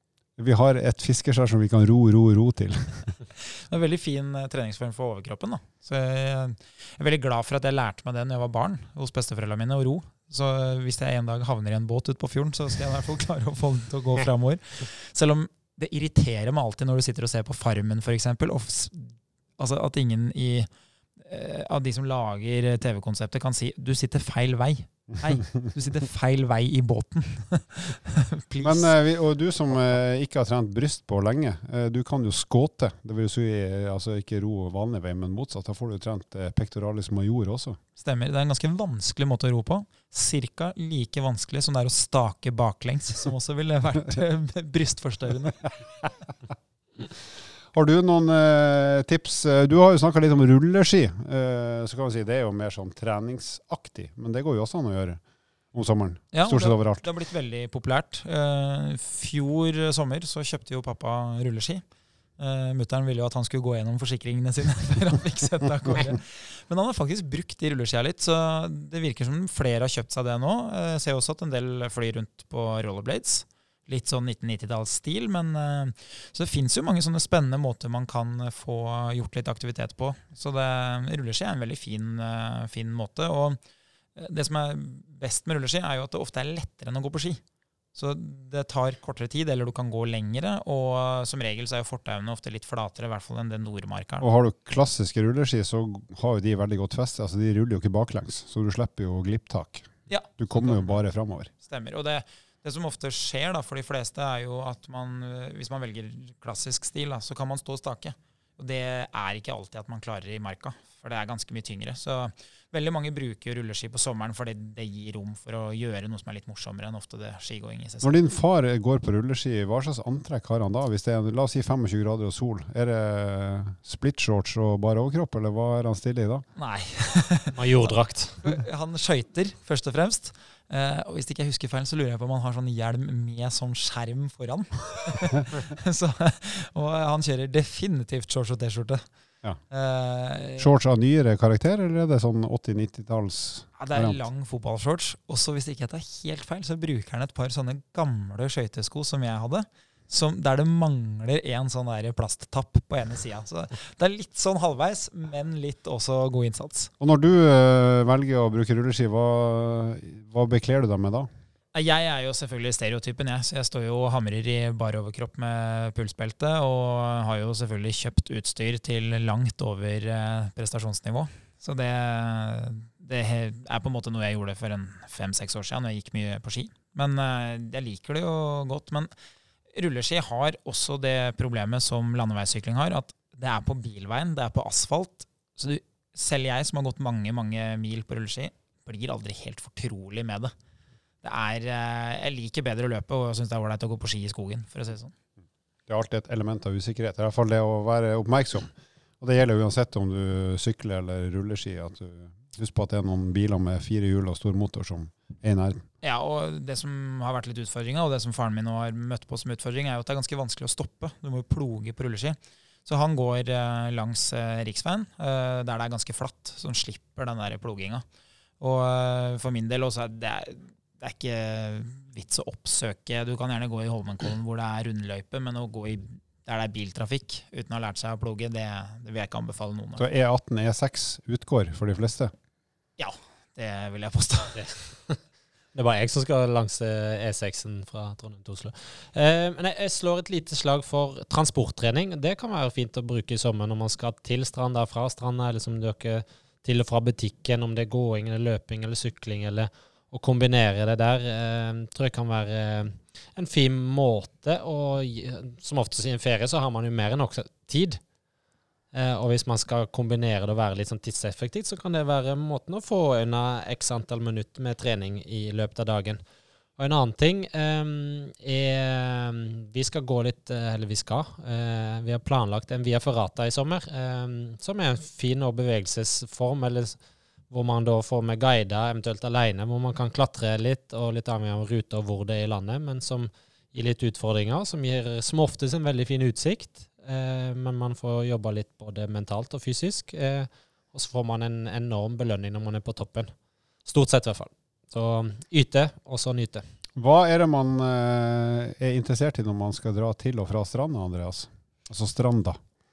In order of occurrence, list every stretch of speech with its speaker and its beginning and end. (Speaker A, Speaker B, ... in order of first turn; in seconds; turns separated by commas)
Speaker A: 0.4-3.1, Speaker B: 3.4-20.7, Speaker B: 21.2-28.9, Speaker A: 28.6-37.8, Speaker B: 38.0-45.7, Speaker A: 47.7-55.2, Speaker A: 55.7-57.1, Speaker B: 56.3-61.8, Speaker B: 62.4-83.6, Speaker B: 84.2-87.4, Speaker B: 87.9-94.3, Speaker A: 94.2-101.5, Speaker B: 100.1-101.0, Speaker B: 101.6-118.2, Speaker A: 118.0-126.4, Speaker B: 126.6-139.1, Speaker C: 127.5-128.4, Speaker B: 139.7-140.7, Speaker A: 140.6-144.3, Speaker B: 143.8-156.9, Speaker A: 157.0-161.3, Speaker B: 161.7-179.1, Speaker B: 179.7-190.5, Speaker B: 191.2-195.1, Speaker A: 195.9-205.8, Speaker B: 206.0-218.1, Speaker B: 218.6-230.1, Speaker A: 230.0-232.3, Speaker B: 233.0-234.6, Speaker C: 234.6-235.2, Speaker C: 235.7-258.0, Speaker C: 258.9-266.2, Speaker C: 266.8-277.0, Speaker C: 277.5-293.3, Speaker C: 293.9-296.6, Speaker A: 297.0-302.6